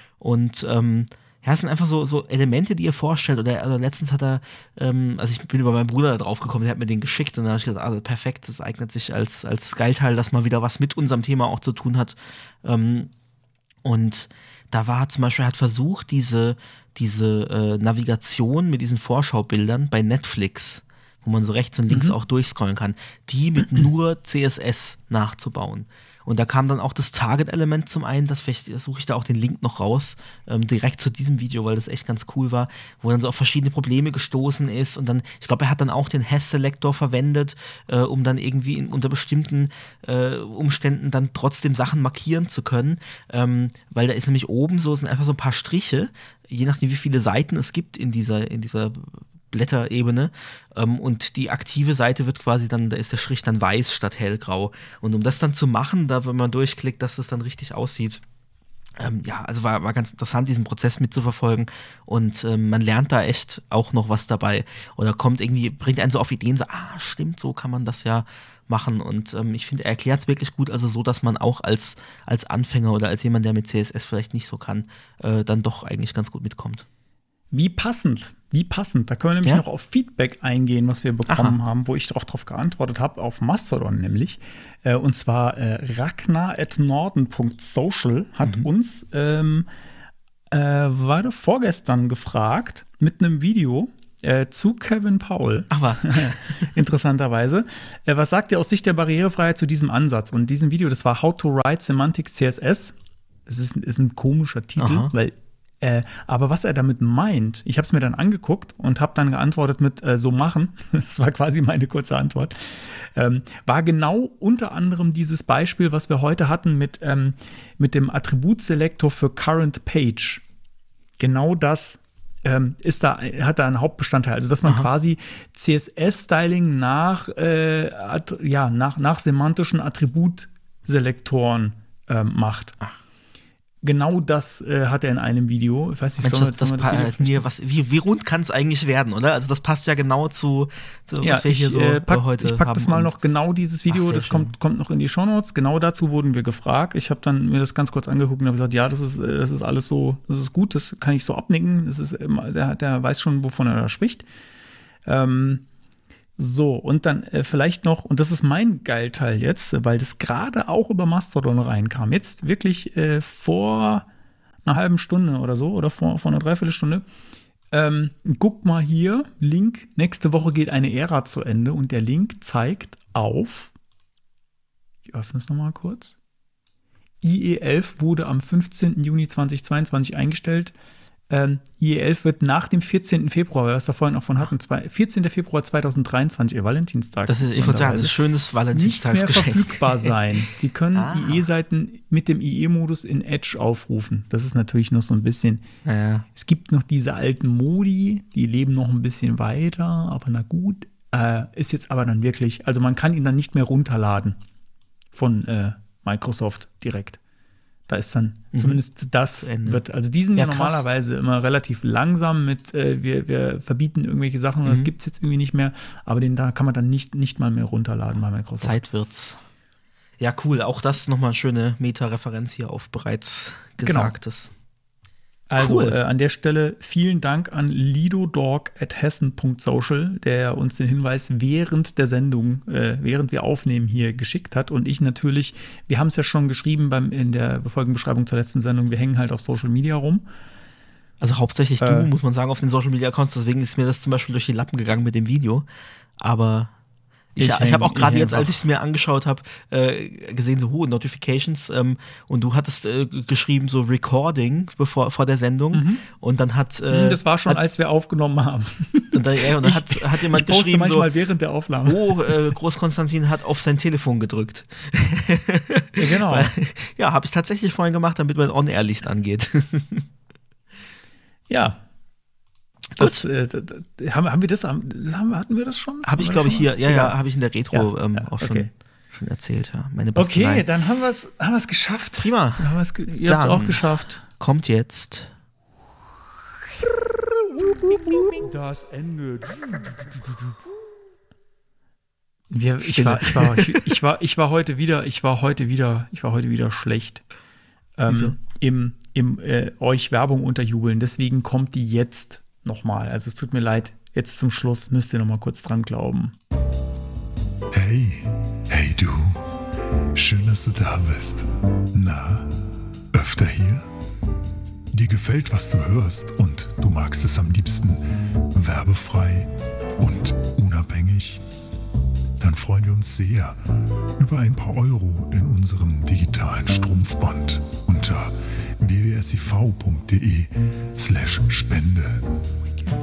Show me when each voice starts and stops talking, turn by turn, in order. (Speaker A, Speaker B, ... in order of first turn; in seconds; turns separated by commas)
Speaker A: 0.2-13.1, Speaker A: 13.8-58.2, Speaker B: 21.9-22.1, Speaker A: 59.0-76.8, Speaker B: 77.5-89.7, Speaker A: 81.3-81.5, Speaker A: 88.4-88.7, Speaker B: 90.5-102.9, Speaker A: 95.7-96.7, Speaker B: 103.5-120.4, Speaker A: 104.8-105.1, Speaker B: 121.2-132.8, Speaker B: 133.8-137.4, Speaker A: 136.2-143.1, Speaker B: 141.2-154.2, Speaker A: 143.9-144.5, Speaker B: 155.0-155.6, Speaker B: 156.4-164.1, Speaker B: 164.6-167.1, Speaker B: 167.7-173.7, Speaker B: 175.1-176.1, Speaker B: 177.2-180.7, Speaker B: 181.3-188.2, Speaker A: 187.3-190.1, Speaker B: 188.7-195.6, Speaker A: 190.9-191.4, Speaker A: 195.8-196.2, Speaker B: 196.3-204.4, Speaker B: 205.1-207.2, Speaker B: 207.9-218.8, Speaker A: 208.5-208.8, Speaker A: 209.4-209.8, Speaker A: 210.3-210.8, Speaker A: 214.6-214.9, Speaker A: 218.6-219.4, Speaker A: 220.2-224.5, Speaker B: 223.8-224.2, Speaker B: 225.5-240.2, Speaker A: 225.6-226.0, Speaker A: 241.2-245.7, Speaker B: 241.8-242.1, Speaker A: 246.2-246.7, Speaker A: 247.3-257.6, Speaker B: 247.4-248.6, Speaker B: 255.7-256.0, Speaker B: 256.9-262.3, Speaker A: 259.1-261.1, Speaker A: 261.9-270.1, Speaker B: 266.0-266.5, Speaker B: 271.5-271.8, Speaker B: 272.9-277.2, Speaker A: 273.0-273.2, Speaker A: 276.0-280.6, Speaker B: 277.7-278.7, Speaker B: 280.1-284.2, Speaker A: 282.2-282.7, Speaker A: 283.2-285.3, Speaker B: 287.5-290.6, Speaker B: 292.5-297.2, Speaker A: 292.8-293.8, Speaker B: 298.0-306.3, Speaker A: 298.1-298.4, Speaker C: 307.7-309.4, Speaker C: 310.1-312.5, Speaker C: 313.1-313.8, Speaker C: 314.9-318.0, Speaker C: 318.5-319.5, Speaker C: 320.0-321.4, Speaker C: 322.4-323.5, Speaker C: 324.2-332.2